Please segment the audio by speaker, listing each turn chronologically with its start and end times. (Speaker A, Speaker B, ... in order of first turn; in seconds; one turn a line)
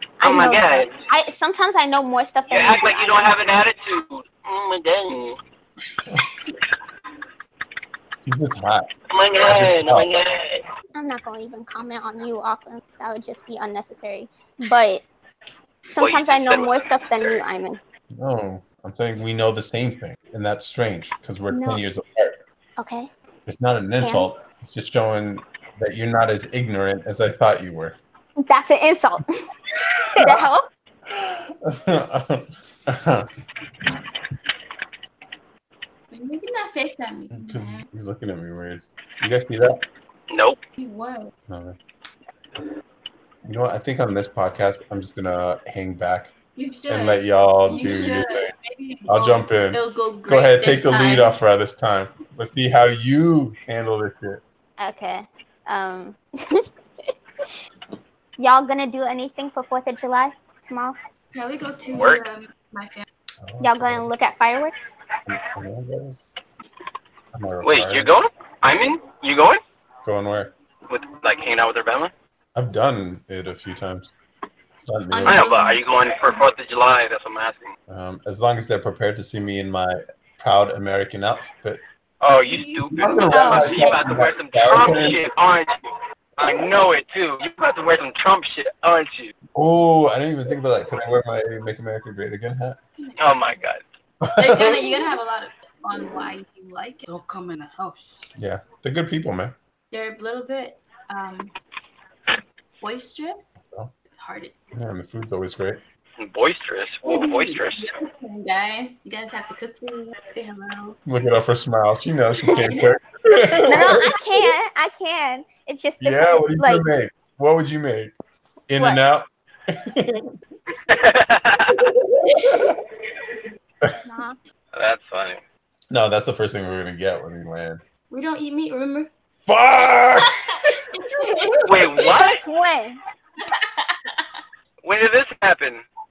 Speaker A: 0.2-3.3
Speaker B: 0.2-1.0
Speaker B: 2.5-5.4
Speaker C: 8.2-8.9
Speaker B: 9.1-10.7
Speaker C: 9.4-10.1
Speaker A: 10.9-15.0
Speaker A: 15.9-17.8
Speaker B: 16.0-17.4
Speaker C: 18.1-22.4
Speaker A: 21.5-21.8
Speaker A: 22.8-23.1
Speaker C: 23.5-28.0
Speaker A: 24.0-24.3
Speaker A: 28.4-29.3
Speaker C: 30.1-30.5
Speaker A: 30.2-30.7
Speaker C: 31.1-33.3
Speaker D: 36.1-37.9
Speaker C: 37.3-39.8
Speaker B: 40.3-40.6
Speaker D: 40.8-41.3
Speaker C: 41.5-41.8
Speaker C: 43.5-46.3
Speaker D: 46.5-51.4
Speaker C: 46.9-48.5
Speaker C: 49.1-54.4
Speaker A: 54.8-56.6
Speaker A: 58.4-61.0
Speaker D: 61.3-63.1
Speaker B: 61.9-62.2
Speaker C: 63.4-64.1
Speaker A: 63.6-65.0
Speaker C: 65.3-66.2
Speaker C: 67.3-68.1
Speaker B: 67.6-69.6
Speaker C: 70.0-70.5
Speaker B: 70.9-72.1
Speaker C: 72.5-74.1
Speaker C: 74.8-75.4
Speaker D: 75.1-75.8
Speaker B: 75.2-77.7
Speaker C: 77.9-81.8
Speaker B: 82.2-85.8
Speaker D: 82.4-83.7
Speaker C: 82.9-85.2
Speaker A: 83.3-84.0
Speaker B: 86.4-89.3
Speaker C: 89.5-92.8
Speaker D: 93.0-93.6
Speaker B: 93.2-93.8
Speaker C: 94.2-95.0
Speaker D: 94.4-98.2
Speaker C: 98.3-99.5
Speaker D: 99.9-101.5
Speaker D: 102.8-103.5
Speaker C: 103.6-103.9
Speaker D: 104.2-104.5
Speaker C: 104.7-105.8
Speaker B: 106.2-107.9
Speaker D: 107.0-111.0
Speaker C: 111.0-114.1
Speaker D: 112.5-112.9
Speaker A: 113.5-116.8
Speaker C: 116.0-118.1
Speaker C: 118.7-120.3
Speaker B: 120.9-121.9
Speaker C: 122.4-122.7
Speaker A: 124.0-124.4
Speaker B: 124.7-125.4
Speaker C: 125.9-127.8
Speaker D: 128.1-129.1
Speaker C: 129.4-130.4
Speaker D: 130.6-131.5
Speaker C: 131.2-131.8
Speaker B: 131.6-132.4
Speaker A: 132.0-133.0
Speaker D: 133.4-134.2
Speaker B: 134.8-135.8